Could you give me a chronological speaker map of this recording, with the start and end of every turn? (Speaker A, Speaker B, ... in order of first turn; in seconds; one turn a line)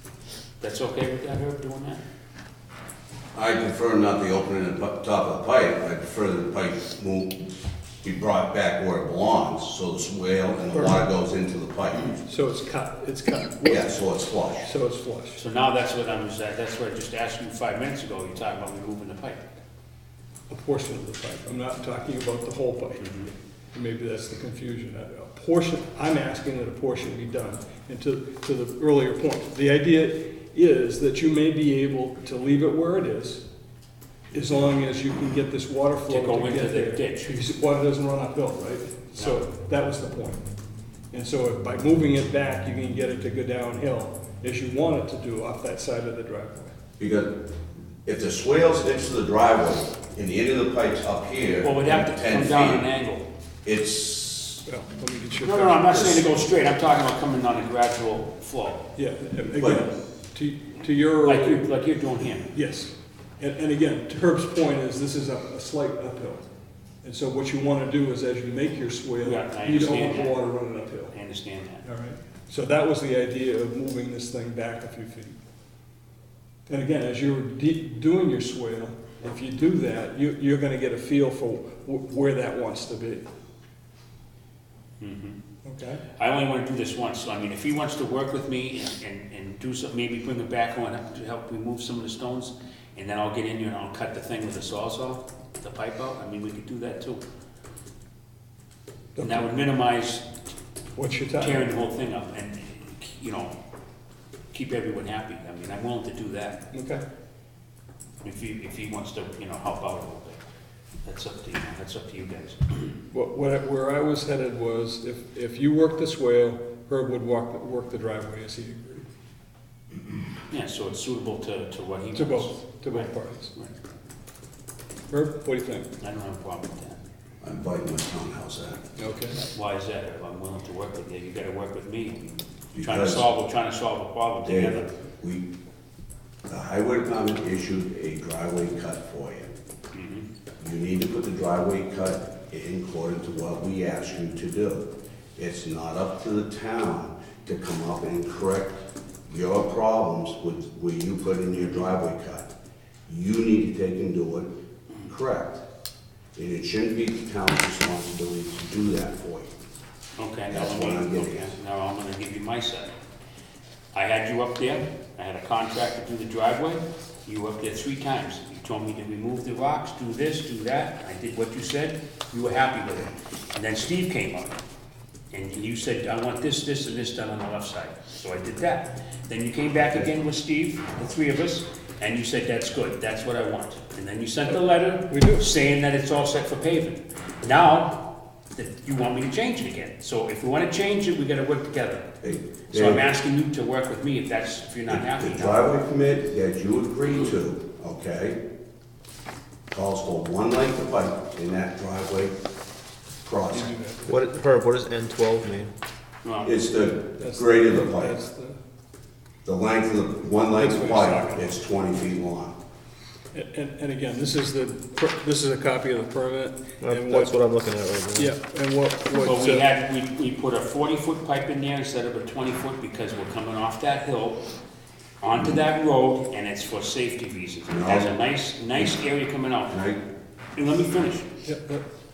Speaker A: 0.6-2.0
Speaker B: 3.3-7.4
Speaker B: 8.0-12.2
Speaker C: 10.7-11.0
Speaker C: 12.3-13.9
Speaker B: 13.7-14.7
Speaker C: 14.6-15.4
Speaker A: 15.4-19.4
Speaker C: 20.5-23.1
Speaker A: 23.0-23.3
Speaker C: 23.7-33.5
Speaker C: 34.3-40.4
Speaker A: 36.1-37.3
Speaker A: 39.2-39.4
Speaker C: 41.1-46.7
Speaker B: 47.0-47.5
Speaker B: 48.0-52.9
Speaker A: 51.6-53.2
Speaker B: 53.6-54.6
Speaker C: 54.7-55.9
Speaker A: 55.4-58.9
Speaker B: 55.9-56.4
Speaker C: 59.0-61.7
Speaker B: 59.5-59.9
Speaker A: 61.2-62.5
Speaker C: 62.5-66.5
Speaker C: 67.0-71.2
Speaker A: 69.2-70.5
Speaker A: 71.1-71.8
Speaker C: 71.8-75.4
Speaker C: 76.7-83.3
Speaker A: 85.0-85.4
Speaker C: 85.7-86.0
Speaker A: 86.2-97.2
Speaker C: 99.2-99.4
Speaker A: 99.2-100.3
Speaker C: 101.0-101.6
Speaker A: 101.4-103.5
Speaker A: 104.5-106.6
Speaker C: 106.7-107.0
Speaker A: 108.2-110.4
Speaker A: 111.0-113.0
Speaker C: 113.1-119.1
Speaker A: 120.5-123.7
Speaker C: 122.1-123.5
Speaker C: 125.1-125.9
Speaker A: 126.0-127.0
Speaker B: 127.4-128.8
Speaker C: 129.0-129.4
Speaker A: 129.4-134.9
Speaker B: 132.7-133.3
Speaker B: 134.4-135.5
Speaker B: 136.5-139.5
Speaker A: 139.9-140.3
Speaker B: 140.6-152.5
Speaker B: 153.1-155.6
Speaker B: 156.4-159.5
Speaker A: 160.2-162.9
Speaker B: 160.5-161.5
Speaker A: 163.9-174.6
Speaker A: 175.3-188.0
Speaker C: 185.1-185.4
Speaker A: 188.5-192.1
Speaker B: 192.2-193.1
Speaker A: 192.7-195.7
Speaker B: 194.9-198.4
Speaker B: 199.7-202.4
Speaker B: 203.2-203.7
Speaker C: 203.5-204.2
Speaker D: 204.1-205.7
Speaker A: 206.2-206.5
Speaker B: 206.4-208.2
Speaker C: 207.2-208.6
Speaker B: 209.4-212.6
Speaker C: 210.6-211.4
Speaker C: 213.3-217.4
Speaker D: 216.8-218.3
Speaker C: 218.1-219.7
Speaker A: 219.2-224.4
Speaker A: 225.2-229.8
Speaker B: 227.7-228.2
Speaker B: 229.7-230.0
Speaker A: 230.6-231.3
Speaker C: 231.4-231.8